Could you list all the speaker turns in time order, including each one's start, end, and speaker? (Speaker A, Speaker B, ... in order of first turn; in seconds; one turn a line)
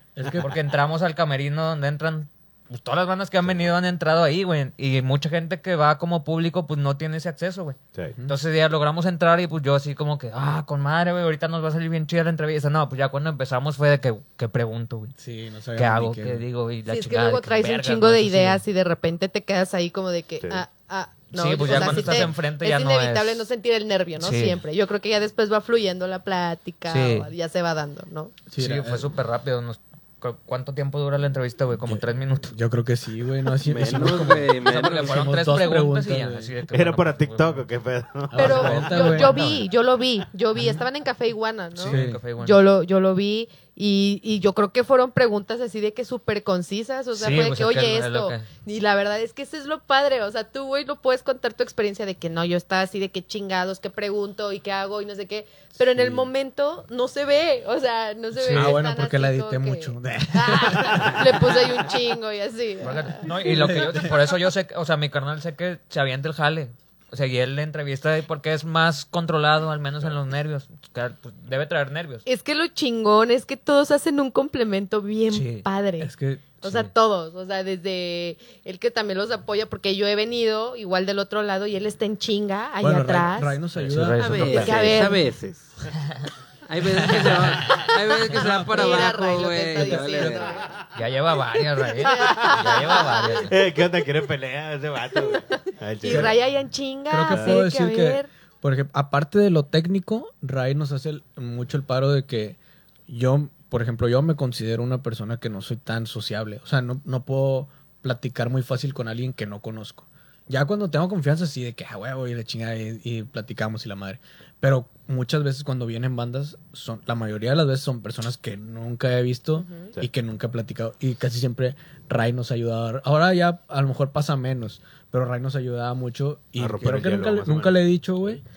Speaker A: 0.2-0.5
Speaker B: 0.4-15.1
Speaker A: 15.2-16.4
Speaker B: 15.8-18.6
Speaker C: 16.9-28.3
Speaker B: 21.3-23.5
Speaker A: 21.7-22.3
Speaker B: 24.2-24.6
Speaker B: 26.9-27.3
Speaker A: 28.5-29.1
Speaker B: 28.6-32.5
Speaker A: 31.8-36.5
Speaker D: 33.6-35.2
Speaker B: 34.5-37.7
Speaker E: 36.7-39.2
Speaker A: 38.3-39.4
Speaker C: 38.3-63.7
Speaker B: 38.5-39.7
Speaker B: 41.8-42.6
Speaker A: 41.9-42.2
Speaker B: 47.2-48.5
Speaker A: 55.9-56.3
Speaker B: 58.4-58.8
Speaker A: 58.5-61.7
Speaker B: 62.8-72.3
Speaker A: 63.4-64.2
Speaker C: 72.3-83.6
Speaker B: 75.3-75.6
Speaker A: 76.0-76.6
Speaker A: 82.8-85.0
Speaker B: 83.8-84.9
Speaker D: 83.9-85.9
Speaker C: 84.3-85.2
Speaker D: 86.7-90.6
Speaker A: 87.1-89.0
Speaker C: 88.4-90.7
Speaker A: 89.8-90.5
Speaker B: 91.0-93.6
Speaker C: 92.0-93.4
Speaker E: 92.2-92.8
Speaker E: 93.4-96.4
Speaker C: 95.3-98.3
Speaker A: 96.0-96.4
Speaker A: 97.1-128.4
Speaker E: 97.3-97.6
Speaker C: 119.5-119.9
Speaker E: 126.6-128.4